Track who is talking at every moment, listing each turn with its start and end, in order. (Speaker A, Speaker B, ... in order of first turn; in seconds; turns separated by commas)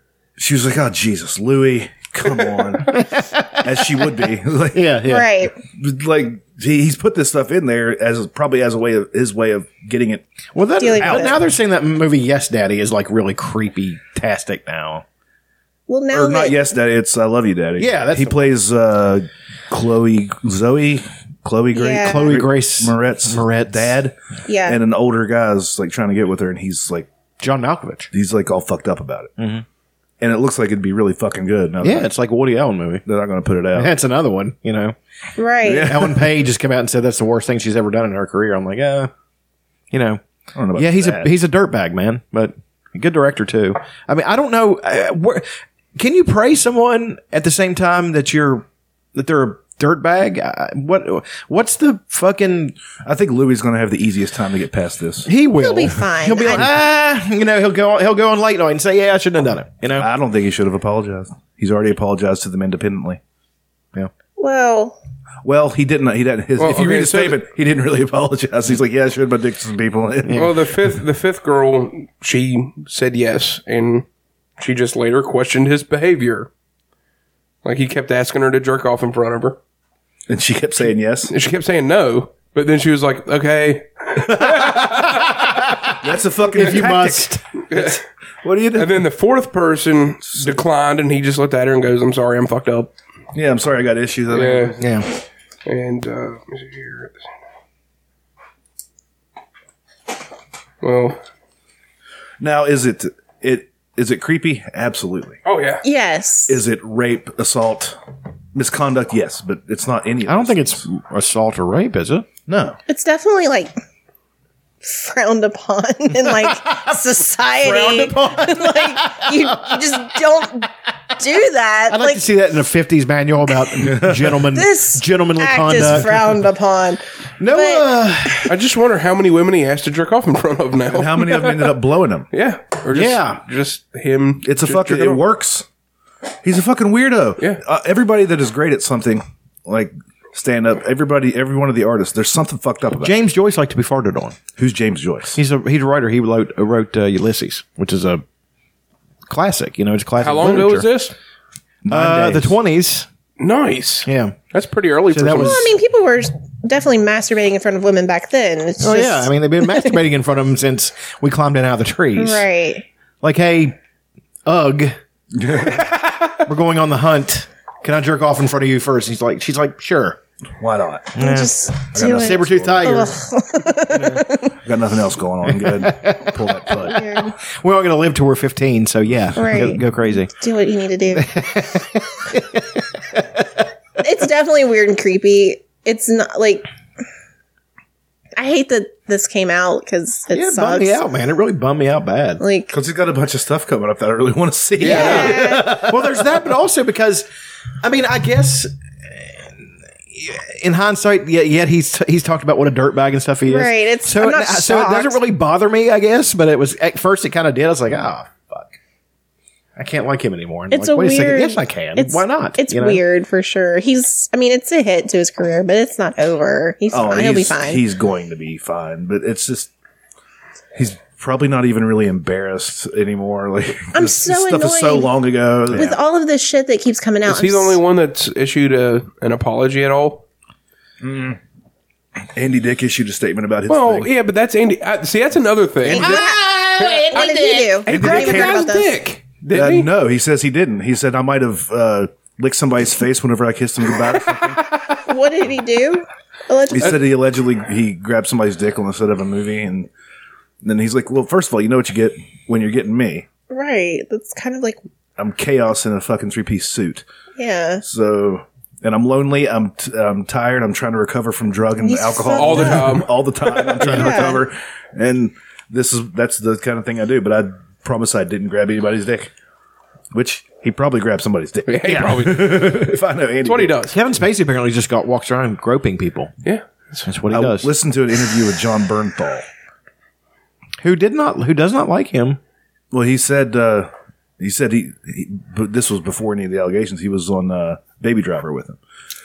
Speaker A: 0.4-3.1, Speaker B: 2.9-3.6, Speaker A: 3.6-5.0, Speaker B: 4.7-5.5, Speaker C: 5.1-5.5, Speaker A: 5.7-10.2, Speaker B: 10.5-15.0, Speaker C: 10.8-11.4, Speaker A: 11.0-11.4, Speaker C: 15.9-16.6, Speaker A: 16.1-27.1, Speaker B: 17.8-18.4, Speaker C: 21.7-22.3, Speaker B: 21.9-23.9, Speaker C: 24.4-24.8, Speaker B: 27.4-28.1, Speaker A: 28.1-29.3, Speaker B: 29.4-29.6, Speaker A: 30.2-32.1, Speaker B: 31.8-33.0, Speaker A: 33.0-33.9, Speaker B: 33.8-35.0, Speaker C: 35.4-35.9, Speaker A: 35.6-36.3, Speaker B: 35.9-39.1, Speaker B: 39.9-40.2, Speaker A: 40.5-41.3, Speaker B: 40.8-52.8, Speaker A: 53.0-55.3, Speaker B: 55.2-60.1, Speaker C: 55.6-56.6, Speaker A: 59.9-63.2, Speaker C: 64.4-65.0, Speaker A: 65.4-70.5, Speaker D: 66.6-67.4, Speaker B: 70.2-70.5, Speaker D: 70.3-74.0, Speaker D: 74.6-76.5, Speaker D: 77.6-79.6, Speaker A: 80.3-81.3, Speaker D: 81.3-85.2, Speaker A: 84.1-85.3, Speaker A: 86.0-89.0, Speaker B: 86.5-87.4, Speaker D: 87.7-88.0, Speaker D: 88.7-92.9, Speaker A: 90.3-90.6, Speaker A: 93.3-94.9, Speaker D: 94.3-94.8, Speaker B: 94.8-95.1, Speaker D: 95.6-97.2, Speaker D: 100.8-101.2, Speaker A: 102.4-105.4, Speaker D: 105.4-105.8, Speaker C: 105.8-106.6, Speaker A: 106.5-108.0, Speaker A: 108.5-110.8, Speaker B: 110.2-112.3, Speaker A: 112.5-112.8, Speaker C: 112.9-113.7, Speaker C: 114.8-122.2, Speaker B: 116.2-116.9, Speaker B: 117.6-120.1, Speaker B: 121.9-126.4, Speaker A: 123.8-124.3, Speaker C: 124.5-128.0, Speaker A: 125.7-126.0, Speaker B: 127.4-128.5, Speaker D: 128.5-135.2, Speaker A: 130.9-132.3, Speaker B: 132.9-133.4, Speaker A: 134.4-135.7, Speaker A: 136.4-143.2, Speaker B: 143.0-144.4, Speaker A: 144.6-145.4, Speaker B: 145.3-148.2, Speaker B: 149.3-150.9, Speaker D: 150.2-151.1, Speaker A: 151.8-152.6, Speaker B: 151.9-153.1, Speaker D: 153.4-155.6, Speaker B: 154.0-154.3, Speaker B: 155.1-155.7, Speaker C: 155.3-159.9, Speaker B: 158.8-162.4, Speaker C: 162.2-162.9, Speaker B: 163.2-163.8, Speaker B: 164.4-165.0, Speaker A: 165.3-165.9, Speaker B: 166.4-170.2, Speaker A: 170.6-171.2, Speaker B: 171.2-173.2, Speaker C: 171.2-174.5, Speaker A: 171.9-173.1, Speaker A: 174.0-177.0, Speaker B: 175.5-180.3, Speaker C: 176.9-177.3, Speaker C: 179.3-181.3, Speaker B: 181.1-183.6, Speaker C: 184.0-186.7, Speaker C: 188.4-191.0, Speaker B: 190.3-192.4, Speaker C: 192.4-192.7, Speaker A: 192.7-196.3, Speaker B: 194.8-197.2, Speaker C: 194.8-195.7, Speaker B: 197.8-208.7, Speaker C: 203.4-205.2, Speaker B: 209.8-213.0, Speaker C: 210.7-217.8, Speaker A: 216.9-219.7, Speaker A: 220.7-226.0, Speaker C: 223.9-225.2, Speaker C: 225.7-227.8, Speaker D: 227.2-230.2, Speaker A: 231.0-231.4, Speaker A: 232.3-234.1, Speaker D: 233.7-239.9, Speaker C: 235.9-236.4, Speaker B: 235.9-237.8, Speaker C: 237.1-238.9, Speaker A: 237.9-238.6, Speaker A: 239.5-244.6, Speaker C: 245.0-246.9, Speaker A: 246.7-249.9, Speaker A: 250.6-253.3, Speaker C: 253.5-254.8, Speaker A: 255.2-257.0, Speaker C: 257.4-257.8, Speaker A: 257.8-269.3, Speaker C: 261.8-262.9, Speaker D: 262.3-263.1, Speaker C: 263.8-264.4, Speaker B: 263.8-264.3, Speaker A: 270.1-273.8, Speaker D: 271.7-273.9, Speaker B: 273.9-276.3, Speaker D: 276.4-277.1, Speaker B: 277.1-277.7, Speaker A: 277.3-279.4, Speaker B: 280.8-282.4, Speaker A: 282.9-288.8